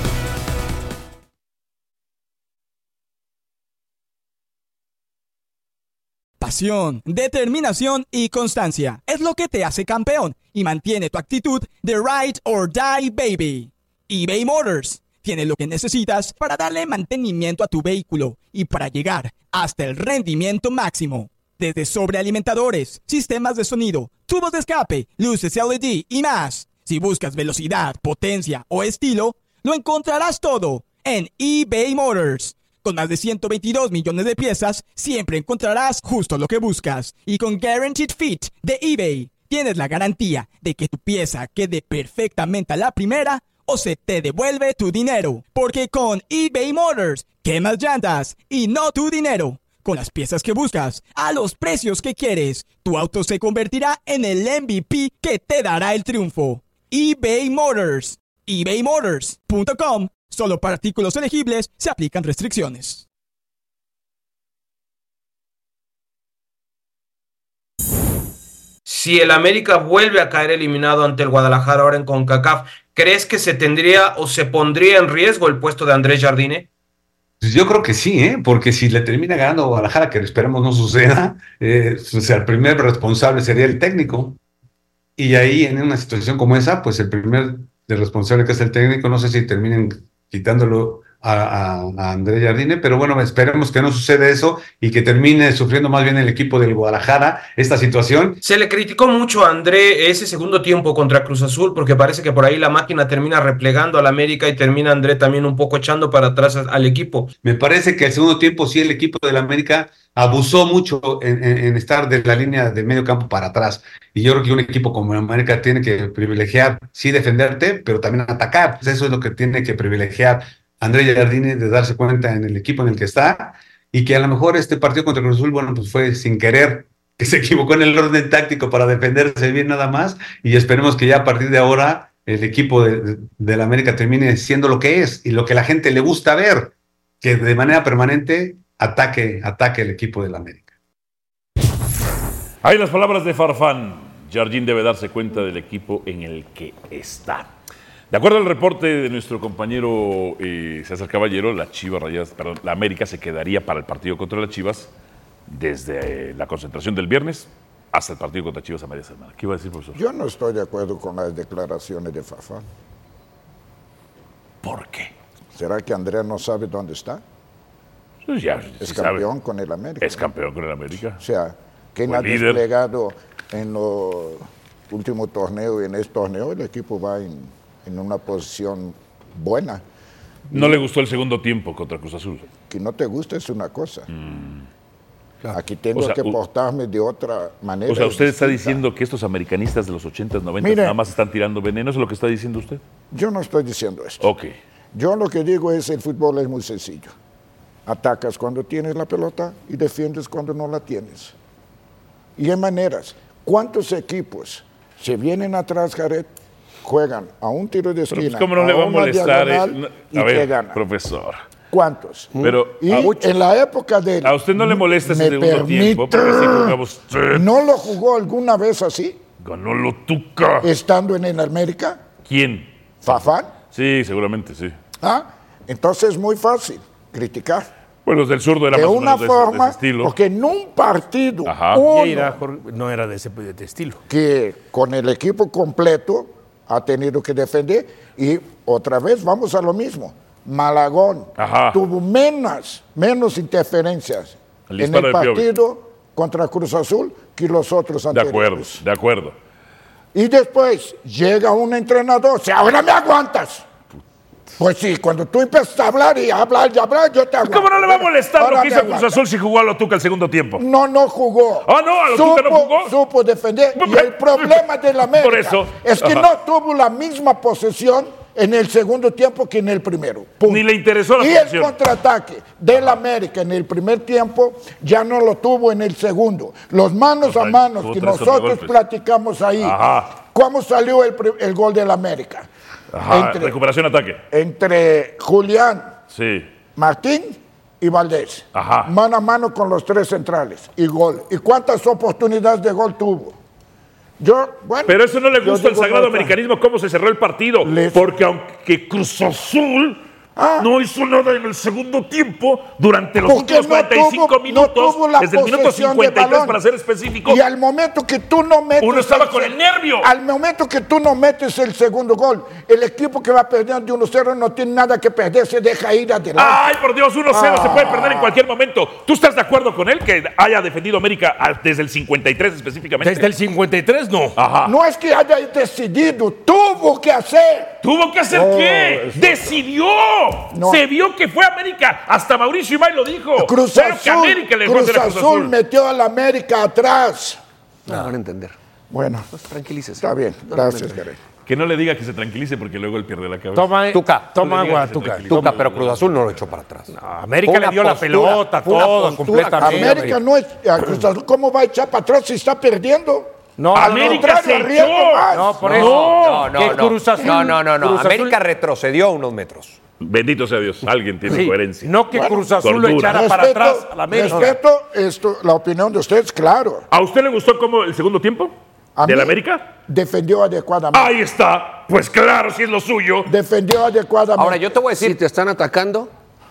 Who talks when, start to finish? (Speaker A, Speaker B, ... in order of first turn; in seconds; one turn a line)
Speaker A: 6.4-63.1
Speaker B: 68.9-76.7
Speaker C: 77.4-84.4
Speaker C: 85.2-98.4
Speaker B: 98.4-107.4
Speaker C: 107.4-140.7
Speaker D: 142.6-147.5
Speaker D: 148.1-154.9
Speaker D: 155.5-160.0
Speaker E: 159.9-162.6
Speaker D: 164.6-165.1
Speaker E: 165.6-167.2
Speaker D: 168.3-169.3
Speaker E: 168.8-170.2
Speaker D: 170.0-171.2
Speaker E: 171.2-179.8
Speaker D: 172.1-172.6
Speaker E: 180.5-180.8
Speaker D: 180.5-182.5
Speaker E: 182.7-184.1
Speaker D: 184.1-184.7
Speaker E: 185.5-188.8
Speaker D: 185.9-186.4
Speaker D: 187.9-192.8
Speaker E: 190.6-191.0
Speaker E: 193.1-194.3
Speaker D: 194.2-194.5
Speaker E: 194.9-197.1
Speaker E: 197.9-201.3
Speaker E: 202.4-210.8
Speaker D: 208.1-211.4
Speaker E: 211.7-216.8
Speaker D: 212.4-213.4
Speaker D: 214.2-217.5
Speaker E: 217.3-219.2
Speaker D: 219.4-220.7
Speaker E: 220.6-222.0
Speaker D: 222.3-223.2
Speaker E: 223.0-223.5
Speaker D: 223.7-224.8
Speaker E: 225.0-227.7
Speaker D: 228.1-230.1
Speaker E: 228.7-232.4
Speaker D: 231.5-231.9
Speaker F: 231.9-234.0
Speaker E: 234.1-248.8
Speaker D: 241.4-241.8
Speaker D: 244.7-245.5
Speaker D: 248.1-249.4
Speaker E: 250.1-253.7
Speaker E: 254.6-259.2
Speaker D: 257.5-260.6
Speaker E: 260.6-270.7
Speaker D: 261.7-262.9
Speaker D: 263.8-266.3
Speaker D: 270.5-271.7
Speaker E: 271.2-282.5
Speaker D: 277.2-278.8
Speaker D: 279.6-280.1
Speaker D: 282.9-284.2
Speaker E: 283.1-283.6
Speaker E: 284.3-286.0
Speaker D: 286.1-286.5
Speaker E: 286.8-293.4
Speaker D: 288.6-288.9
Speaker E: 294.2-296.4
Speaker D: 294.9-300.0
Speaker E: 297.6-298.1
Speaker E: 300.4-300.7
Speaker D: 300.6-307.4
Speaker E: 303.2-306.6
Speaker E: 307.3-316.7
Speaker D: 308.8-310.1
Speaker D: 316.4-323.3
Speaker E: 317.3-318.4
Speaker F: 323.0-324.4
Speaker D: 324.4-324.7
Speaker E: 324.6-327.8
Speaker D: 327.8-335.5
Speaker E: 328.3-329.6
Speaker E: 330.5-330.8
Speaker E: 333.4-337.4
Speaker G: 337.9-338.6
Speaker E: 338.9-339.3
Speaker G: 339.3-341.0
Speaker E: 340.0-341.2
Speaker D: 341.5-343.7
Speaker F: 343.6-345.3
Speaker H: 343.9-346.9
Speaker D: 344.4-346.2
Speaker F: 346.9-350.2
Speaker H: 347.4-350.1
Speaker E: 349.6-355.9
Speaker F: 353.6-354.3
Speaker D: 353.8-356.8
Speaker F: 355.3-358.4
Speaker H: 355.8-359.8
Speaker D: 360.0-362.0
Speaker F: 361.3-364.6
Speaker E: 362.1-366.9
Speaker D: 362.6-363.3
Speaker D: 366.9-369.7
Speaker E: 369.0-371.1
Speaker D: 370.9-373.3
Speaker E: 373.3-374.6
Speaker H: 374.4-375.2
Speaker G: 374.9-376.1